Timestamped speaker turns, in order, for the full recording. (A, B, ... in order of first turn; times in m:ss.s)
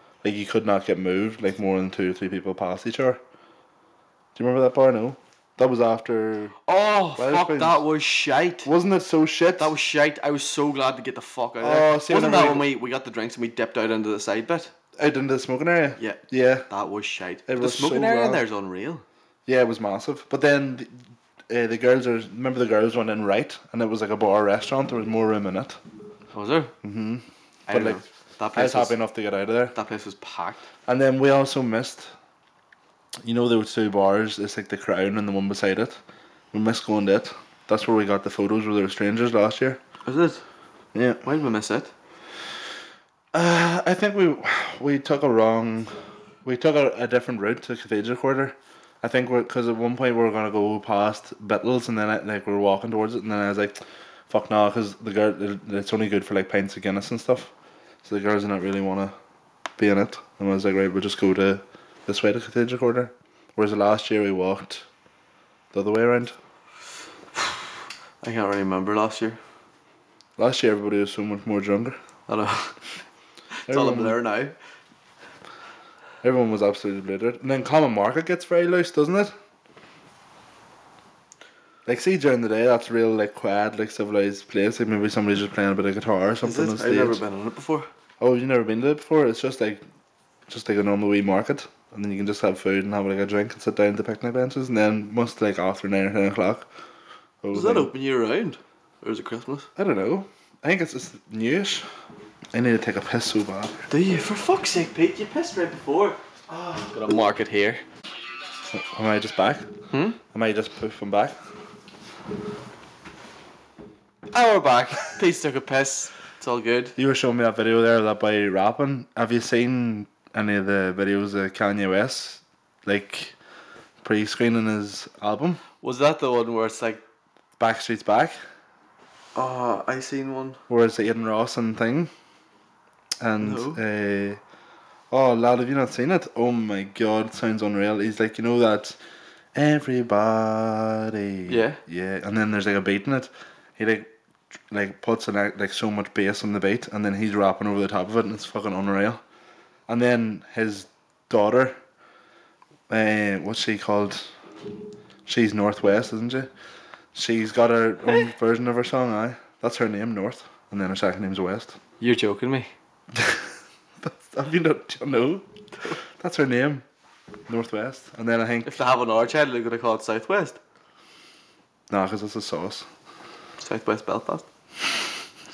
0:00.2-0:03.2 A
0:04.3-0:06.5 A
0:06.6-0:08.7 B
0:07.2-0:07.8 A
0:08.6-0:09.7 A
0:09.6-0:14.7 B
0:11.6-0:12.7 A
0:15.0-0:16.7 A
0:16.0-0:19.0 B
0:17.5-0:18.4 A
0:19.4-0:25.8 A
0:26.3-0:26.7 B
0:26.8-0:29.7 A
0:27.7-0:29.0 B
0:29.7-0:30.6 B
0:30.9-0:32.1 A
0:33.2-0:36.0 A
0:36.5-0:39.8 A
0:40.0-0:40.4 B
0:40.9-0:41.2 A
0:41.2-0:41.9 B
0:43.3-0:45.9 A
0:46.4-0:53.8 A
0:54.3-0:57.5 A
0:58.0-0:59.1 A
0:59.8-1:04.8 A
1:05.7-1:06.3 A
1:08.2-1:09.4 B
1:10.4-1:12.0 A
1:12.3-1:12.8 B
1:13.6-1:14.5 B
1:13.7-1:14.2 A
1:16.2-1:19.3 A
1:21.8-1:27.2 A
1:26.4-1:27.9 B
1:28.2-1:29.8 A
1:30.5-1:36.7 A
1:37.4-1:37.9 A
1:37.5-1:39.7 B
1:39.8-1:41.9 A
1:42.5-1:43.8 A
1:43.9-1:46.2 B
1:46.5-1:46.8 A
1:46.8-1:47.8 B
1:48.7-1:49.7 A
1:49.9-1:50.2 B
1:50.3-1:51.4 A
1:54.3-1:56.9 B
1:57.0-2:03.3 A
2:04.0-2:05.6 A
2:05.8-2:07.0 B
2:07.6-2:08.4 A
2:09.3-2:10.6 B
2:10.7-2:12.1 A
2:13.2-2:14.4 A
2:13.4-2:13.8 B
2:15.1-2:19.0 A
2:19.5-2:24.1 A
2:21.5-2:21.8 B
2:24.7-2:29.2 A
2:29.9-2:31.8 A
2:32.9-2:34.3 A
2:35.2-2:36.5 A
2:37.1-2:41.8 A
2:42.0-2:42.7 B
2:43.1-2:43.4 A
2:44.0-2:45.4 A
2:46.2-2:46.8 A
2:47.5-2:48.8 A
2:48.6-2:50.6 B
2:51.9-2:52.9 A
2:53.6-2:54.4 B